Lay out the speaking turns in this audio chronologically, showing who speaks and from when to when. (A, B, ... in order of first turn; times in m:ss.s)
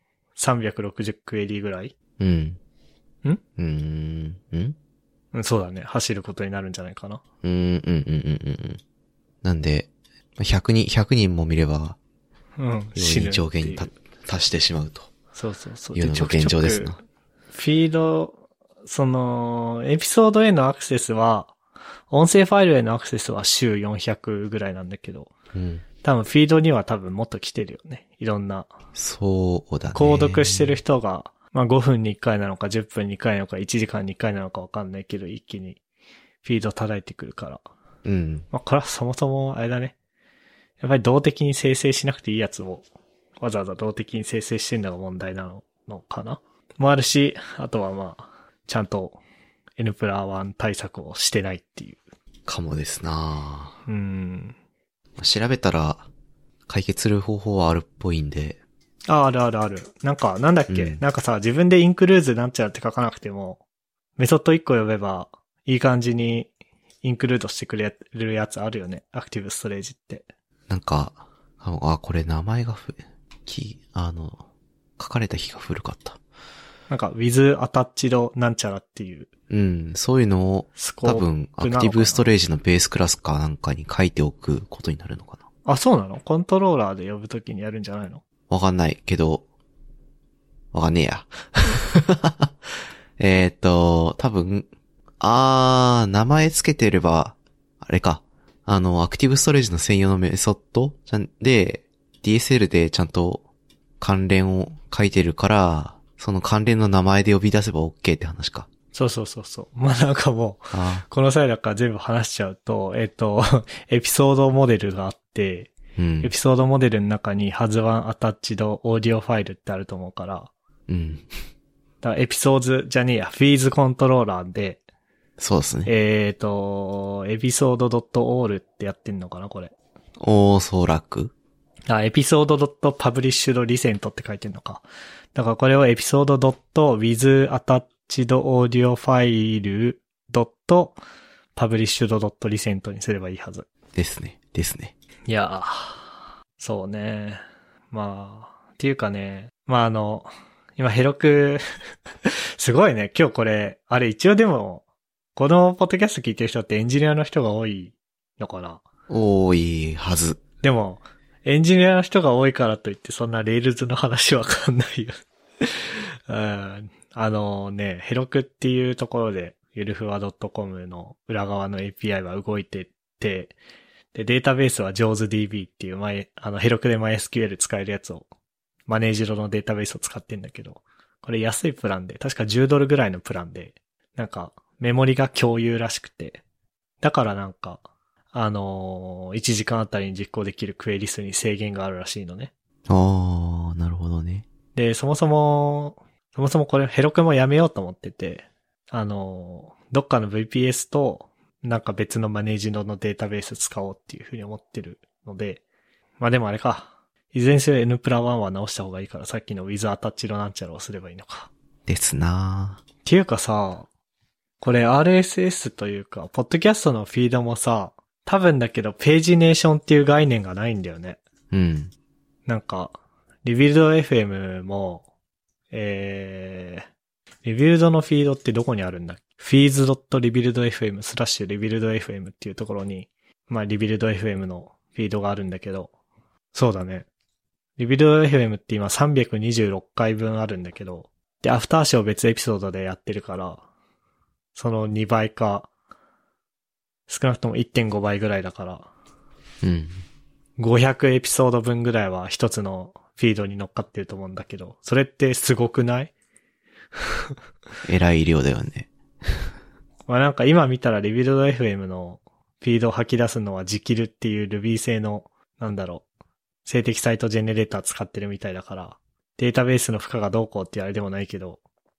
0:00.4-0:01.9 A
0:02.2-0:02.6 B
0:03.6-0:04.8 B
0:05.3-0:07.2 A
0:07.4-0:08.8 B
0:09.4-0:12.0 B
0:12.6-0:13.9 A
0:13.0-0:15.1 B
0:15.3-0:17.0 A
0:15.9-0:17.0 B
0:17.5-0:21.5 A
0:22.1-0:25.3 A
0:25.5-0:25.8 B
0:26.0-0:28.7 A
0:28.9-0:30.8 B
0:29.9-0:35.8 A
0:36.4-0:37.6 A
0:38.0-0:38.4 B
0:38.5-0:39.9 A
0:40.8-0:42.8 A
0:43.4-0:49.2 A
0:49.8-0:52.0 A
0:52.4-0:53.8 B
0:53.9-0:54.5 A
0:55.2-0:56.1 B
0:56.7-0:58.6 B
0:59.1-1:03.6 A
1:00.7-1:01.0 B
1:04.2-1:06.5 A
1:07.0-1:10.2 A
1:10.7-1:14.4 B
1:15.0-1:16.2 B
1:16.9-1:19.3 A
1:19.5-1:25.4 B
1:20.8-1:22.2 A
1:25.6-1:28.2 A
1:28.5-1:29.4 B
1:30.7-1:32.5 B
1:33.2-1:34.7 B
1:35.2-1:43.4 B
1:44.0-1:48.7 B
1:48.9-1:55.7 A
1:50.7-1:51.0 B
1:56.0-1:56.3 B
1:56.2-2:00.5 A
2:00.9-2:01.3 B
2:02.0-2:04.8 A
2:05.4-2:05.9 B
2:05.8-2:09.7 A
2:10.2-2:11.3 B
2:11.9-2:14.8 A
2:15.3-2:21.0 A
2:21.6-2:23.6 A
2:23.9-2:24.9 B
2:25.3-2:31.6 A
2:32.2-2:34.8 A
2:35.4-2:38.8 A
2:39.1-2:40.4 B
2:40.6-2:53.5 A
2:54.1-2:58.3 A
2:58.9-3:06.4 A
3:07.0-3:07.8 A
3:08.3-3:12.5 A
3:12.9-3:14.4 B
3:14.7-3:25.6 A
3:26.2-3:31.5 A
3:31.8-3:32.8 B
3:33.0-3:33.9 A
3:34.6-3:41.2 A
3:41.5-3:41.9 B
3:42.4-3:45.0 A
3:45.7-3:46.9 A
3:47.4-3:55.9 A
3:56.5-3:57.0 A
3:57.8-4:03.6 A
4:04.5-4:05.7 A
4:07.1-4:08.9 A
4:09.6-4:10.0 B
4:10.6-4:16.1 A
4:17.8-4:19.5 B
4:20.1-4:26.0 A
4:26.6-4:31.6 A